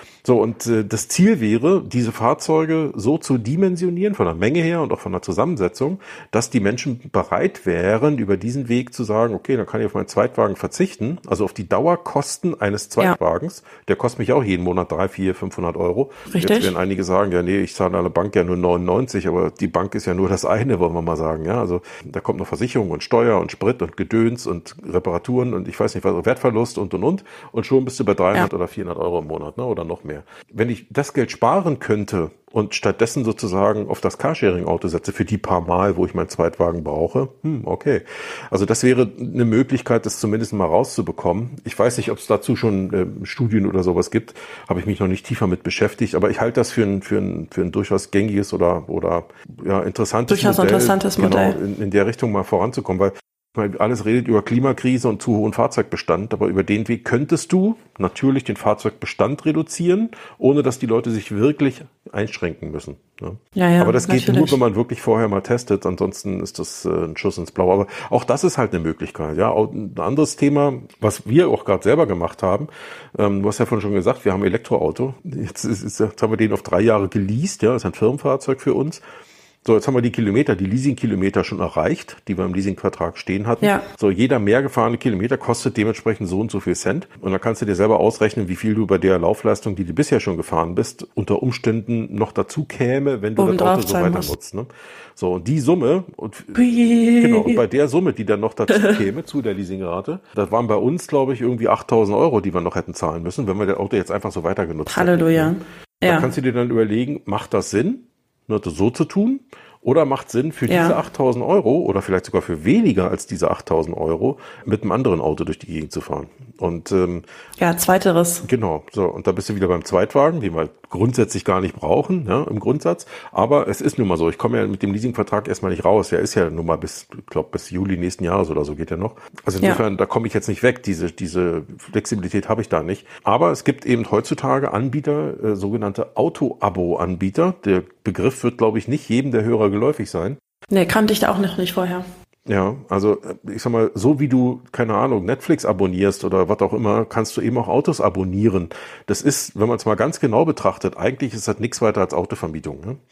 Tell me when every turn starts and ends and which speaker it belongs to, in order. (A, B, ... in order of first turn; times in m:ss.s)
0:00.2-1:19.0 A
0:16.3-0:16.7 B
0:50.3-0:51.6 B
1:03.6-1:04.6 B
1:19.6-1:36.6 A
1:33.4-1:34.3 B
1:36.6-1:37.6 B
1:37.2-1:57.2 A
1:38.7-1:39.0 B
1:44.9-1:46.3 B
1:50.7-1:51.0 B
1:57.6-1:58.4 B
1:58.4-2:20.4 A
2:20.7-2:22.0 B
2:22.5-2:33.0 A